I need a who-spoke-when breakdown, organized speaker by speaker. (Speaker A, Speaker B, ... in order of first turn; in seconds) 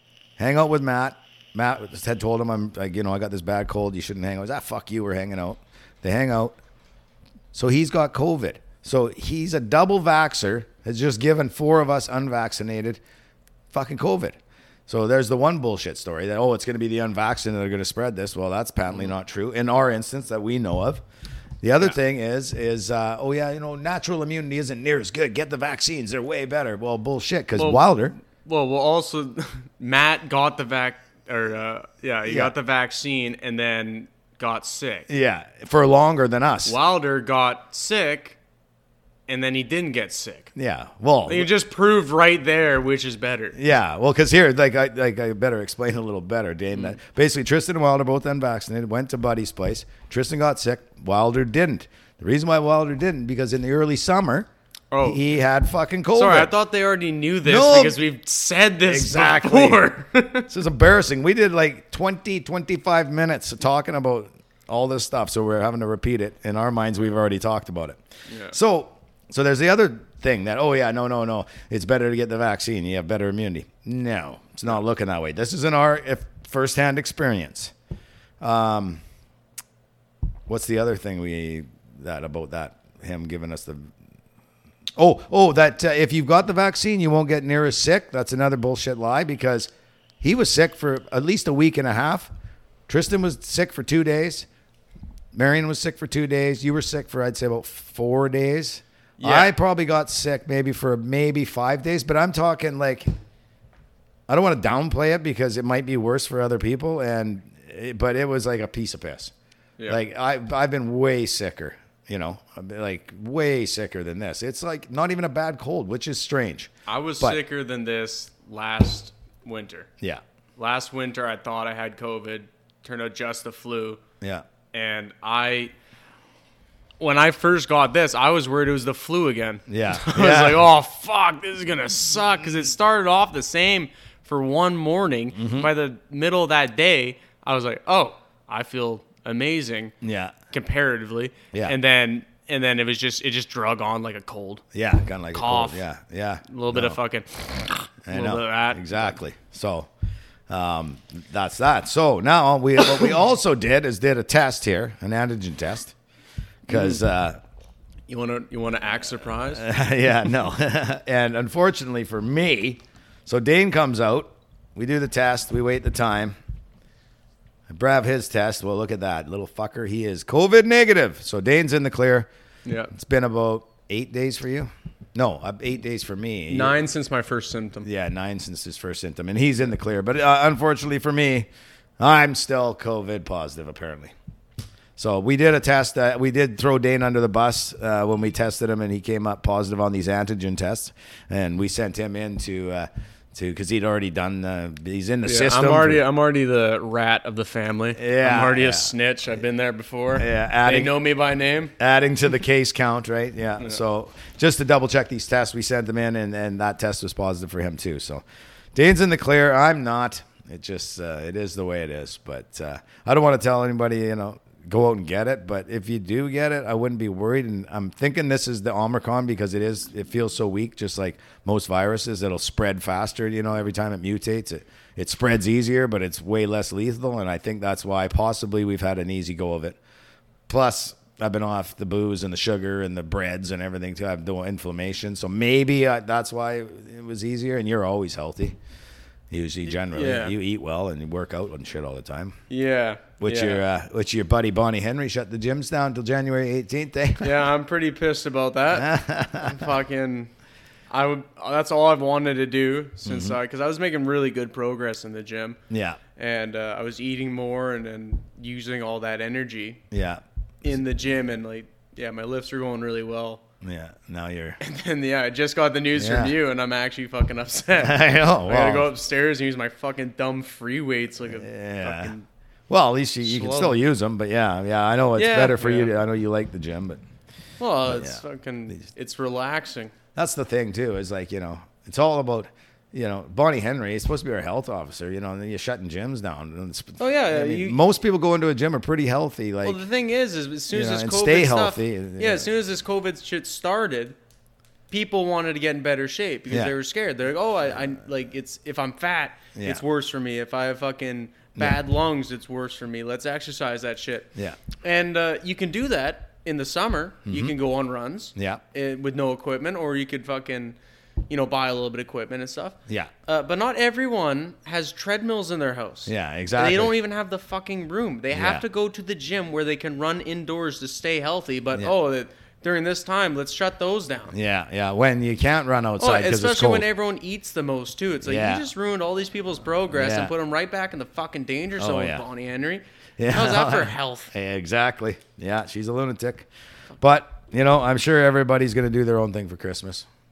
Speaker A: 0.4-6.6, 7.5-13.0, 13.7-21.0, 21.6-28.1, 32.2-32.5, 35.1-36.8, 40.5-41.5, 43.5-54.5, 55.0-56.5, 57.4-58.0, 58.9-59.8, 60.5-77.7, 78.4-79.0, 80.5-83.9, 85.0-89.7, 90.2-92.3, 92.9-94.5, 95.3-103.0, 104.3-109.3, 109.9-117.4, 129.7-130.6, 135.3-135.7, 140.0-140.3, 144.7-147.0, 148.1-149.9, 150.5-155.9, 156.7-157.4, 159.5-166.3, 167.7-172.3, 172.9-176.8, 177.8-181.5, 182.0-184.1, 185.0-196.0, 197.9-198.9, 200.2-200.9, 201.8-208.2, 208.7-229.8, 230.5-238.6, 239.3-242.4, 243.2-247.4, 248.7-249.7, 253.0-253.4, 255.7-256.0, 259.9-260.2, 263.6-264.6, 266.0-266.4, 267.8-268.9, 271.3-272.1, 272.7-277.0, 277.9-278.2, 280.1-289.8, 290.7-292.5, 299.6-299.8, 307.2-307.6, 308.4-308.6, 316.1-316.9, 318.3-318.6, 324.3-326.9, 328.2-328.7, 329.9-330.3, 331.8-332.2, 333.2-336.5, 337.0-340.1
Speaker B: 27.6-27.8, 28.3-35.1, 36.6-38.4, 39.3-40.5, 41.3-43.6, 54.9-55.2, 56.1-60.5, 68.3-68.5, 99.2-99.5, 116.9-119.9, 120.6-124.0, 124.7-125.7, 127.0-139.9, 140.5-144.6, 145.3-145.8, 146.5-149.1, 156.7-157.0, 158.1-159.7, 172.6-172.9, 176.5-177.9, 195.2-201.7, 239.7-240.3, 242.5-243.6, 247.2-250.3, 250.9-255.6, 256.2-259.8, 260.6-263.4, 264.6-272.2, 273.2-273.8, 275.1-275.9, 277.6-279.9, 287.0-287.8, 289.6-294.2, 294.9-304.3, 304.8-310.8, 311.3-324.4, 326.0-334.3